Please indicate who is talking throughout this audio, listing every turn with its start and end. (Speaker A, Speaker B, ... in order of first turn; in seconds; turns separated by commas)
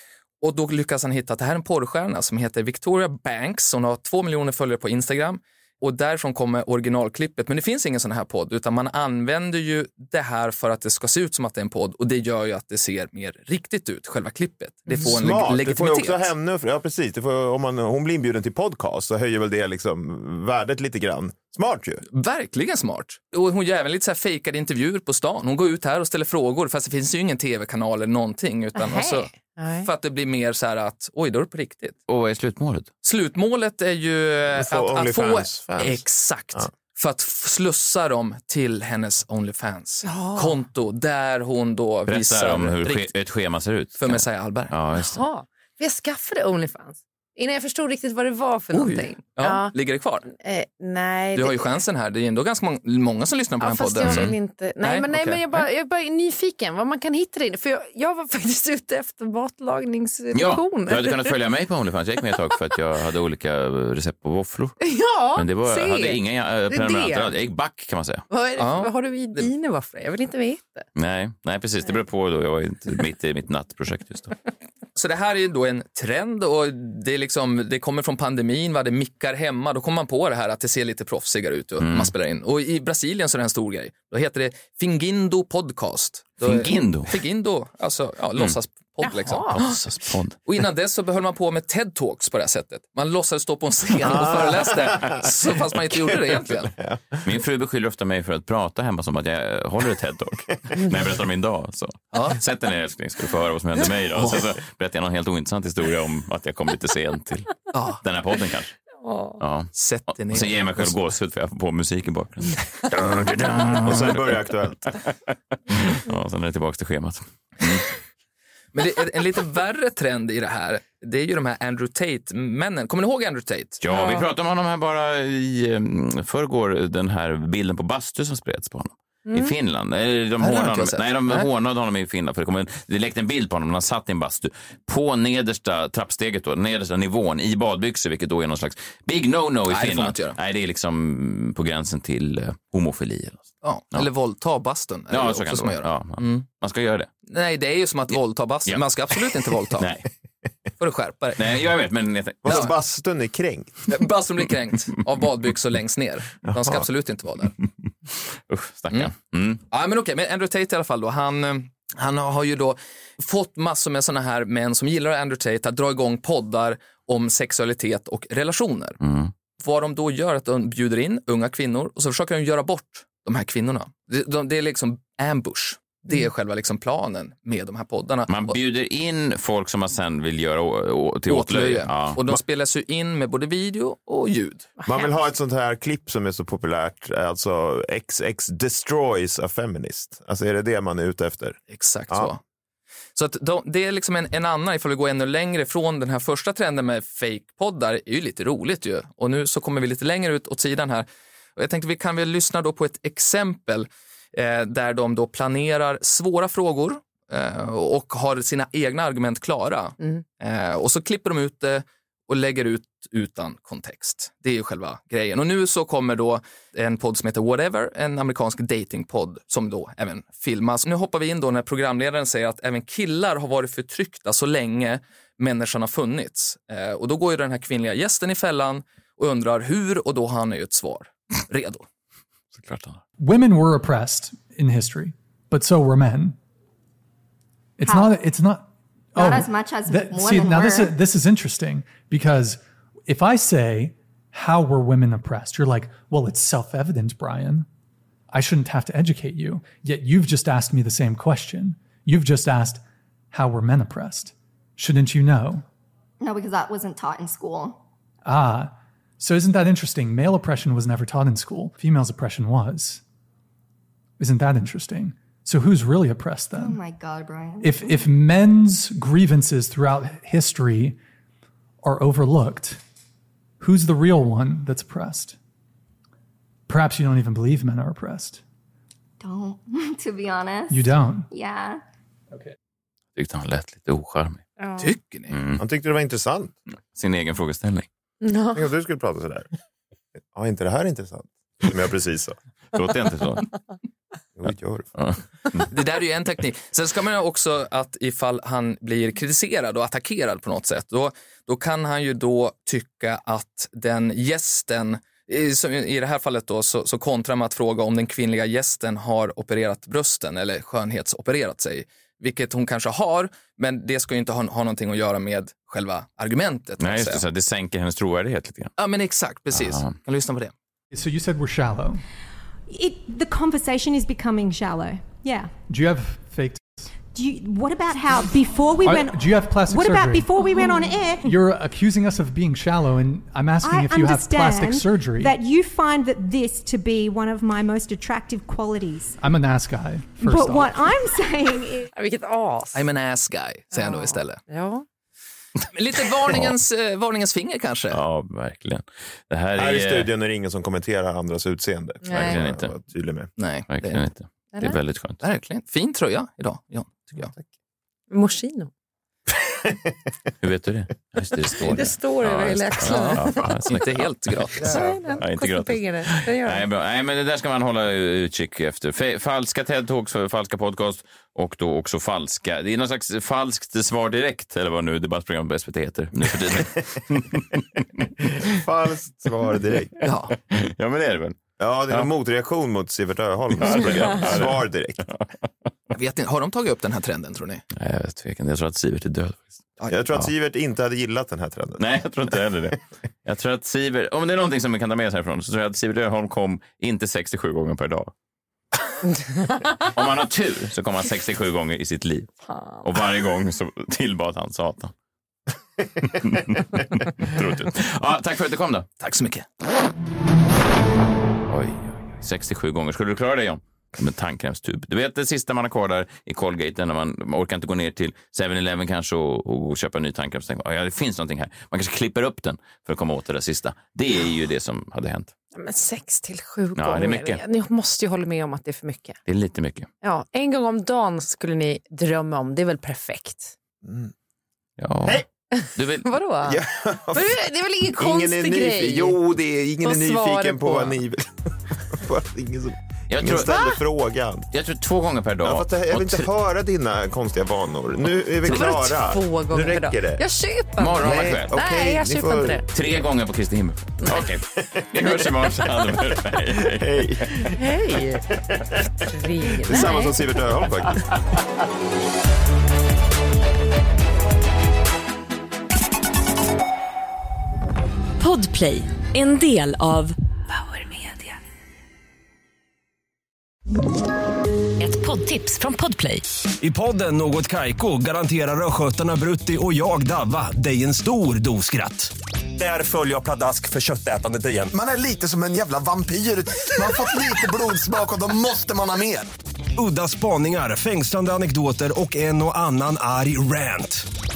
Speaker A: 0.4-16.3, Speaker B: 15.0-22.0, Speaker A: 22.1-29.3, Speaker C: 28.8-29.9, Speaker A: 29.8-32.0, Speaker D: 32.1-32.9, Speaker A: 33.0-43.1, Speaker B: 34.5-36.7, Speaker C: 40.0-40.6, Speaker D: 42.1-45.2, Speaker A: 44.0-44.8, Speaker C: 45.0-49.8, Speaker A: 48.7-50.3, Speaker C: 50.3-51.8, Speaker A: 51.3-55.7, Speaker C: 53.6-61.4, Speaker D: 54.0-54.4, Speaker D: 60.3-64.8, Speaker C: 64.8-67.3, Speaker D: 65.3-68.2, Speaker C: 68.3-70.9, Speaker A: 68.6-69.5, Speaker D: 71.0-74.3, Speaker A: 75.0-89.6, Speaker D: 81.8-82.1, Speaker D: 86.4-87.1, Speaker C: 89.0-89.9, Speaker D: 89.5-90.4, Speaker A: 90.5-96.7, Speaker B: 94.1-95.2, Speaker B: 96.8-97.0, Speaker D: 97.2-108.7, Speaker A: 102.1-102.4, Speaker A: 104.1-104.5, Speaker A: 107.7-108.0, Speaker C: 109.0-109.4, Speaker D: 109.4-109.7, Speaker A: 109.7-111.0, Speaker D: 110.2-114.4, Speaker B: 113.2-114.9, Speaker D: 115.9-117.8, Speaker A: 118.7-123.8, Speaker D: 123.8-144.1, Speaker C: 123.9-124.2, Speaker C: 129.3-129.5, Speaker A: 130.4-131.5, Speaker A: 139.7-140.4, Speaker A: 143.6-146.5, Speaker D: 145.1-147.1, Speaker A: 147.3-149.9, Speaker D: 149.7-150.1, Speaker A: 150.8-151.7, Speaker D: 151.4-152.7, Speaker A: 152.4-152.7, Speaker B: 152.4-153.8, Speaker A: 153.9-157.5, Speaker D: 158.5-159.6, Speaker A: 159.7-169.0, Speaker D: 169.0-169.3, Speaker A: 169.6-178.6, Speaker D: 178.3-182.2, Speaker A: 181.3-184.7, Speaker B: 184.9-192.3, Speaker A: 191.7-192.4, Speaker A: 193.1-231.9, Speaker D: 232.5-233.0, Speaker E: 233.2-236.4, Speaker E: 237.8-247.7, Speaker F: 237.8-238.1, Speaker F: 239.2-240.9, Speaker E: 248.3-255.6, Speaker F: 256.2-257.8, Speaker E: 258.2-263.0, Speaker E: 264.2-266.8, Speaker F: 266.5-268.0, Speaker E: 267.6-271.0, Speaker E: 271.8-272.8, Speaker E: 273.6-275.4, Speaker E: 276.7-278.4, Speaker F: 279.2-281.8, Speaker E: 280.7-281.3, Speaker D: 283.1-284.4, Speaker C: 284.6-284.9, Speaker A: 284.8-285.4, Speaker D: 285.3-285.6, Speaker B: 285.6-286.5, Speaker D: 286.9-287.9, Speaker C: 288.2-288.6, Speaker B: 288.5-289.5, Speaker B: 290.3-292.4, Speaker D: 292.7-293.5, Speaker B: 294.4-294.9, Speaker A: 295.7-317.2, Speaker D: 316.8-318.7, Speaker A: 318.8-320.5, Speaker D: 319.5-319.9, Speaker E: 320.9-322.0, Speaker G: 322.7-325.5, Speaker E: 325.7-326.9, Speaker G: 327.1-331.4, Speaker E: 328.8-335.4, Speaker G: 333.6-339.2, Speaker E: 339.2-340.9, Speaker G: 340.2-341.9, Speaker C: 341.9-342.9, Speaker A: 342.7-344.4, Speaker C: 343.7-344.9, Speaker A: 345.7-348.0, Speaker D: 347.9-350.1, Speaker B: 349.6-353.3, Speaker C: 352.0-352.4, Speaker D: 352.1-352.7, Speaker A: 353.4-354.0, Speaker D: 353.7-355.2, Speaker C: 354.5-354.8, Speaker A: 355.2-357.3, Speaker C: 358.1-358.7, Speaker D: 360.4-364.1, Speaker C: 361.6-363.8, Speaker A: 363.6-364.8, Speaker B: 364.6-365.1, Speaker C: 364.6-366.6, Speaker D: 365.1-377.6, Speaker B: 378.4-380.0, Speaker A: 380.0-380.4, Speaker D: 380.5-382.1, Speaker B: 381.6-385.1, Speaker D: 383.5-385.3, Speaker A: 385.9-387.6, Speaker D: 387.7-389.6, Speaker B: 389.9-391.9, Speaker D: 391.8-398.1, Speaker D: 399.8-404.9, Speaker C: 402.5-402.8, Speaker D: 406.0-408.9, Speaker A: 409.0-409.4, Speaker D: 411.4-425.3, Speaker C: 425.5-429.2, Speaker D: 426.8-427.4, Speaker D: 429.3-429.9, Speaker C: 430.0-433.5, Speaker B: 433.8-434.1, Speaker D: 434.8-436.1, Speaker C: 435.6-439.2, Speaker B: 436.5-437.4, Speaker B: 437.9-444.5, Speaker C: 439.8-441.0, Speaker D: 443.1-443.6, Speaker C: 443.4-443.8, Speaker D: 444.5-446.3, Speaker B: 445.4-450.2, Speaker C: 448.4-452.7, Speaker D: 450.8-451.5, Speaker B: 451.0-452.6, Speaker D: 452.7-457.0, Speaker B: 456.7-457.6, Speaker C: 457.5-458.2, Speaker B: 458.5-458.8, Speaker C: 459.1-460.1, Speaker B: 459.6-461.0, Speaker H: 468.2-471.4, Speaker H: 474.8-476.2, Speaker I: 476.6-482.1, Speaker J: 482.6-483.2, Speaker I: 483.0-484.7, Speaker J: 484.7-489.3, Speaker I: 489.8-494.1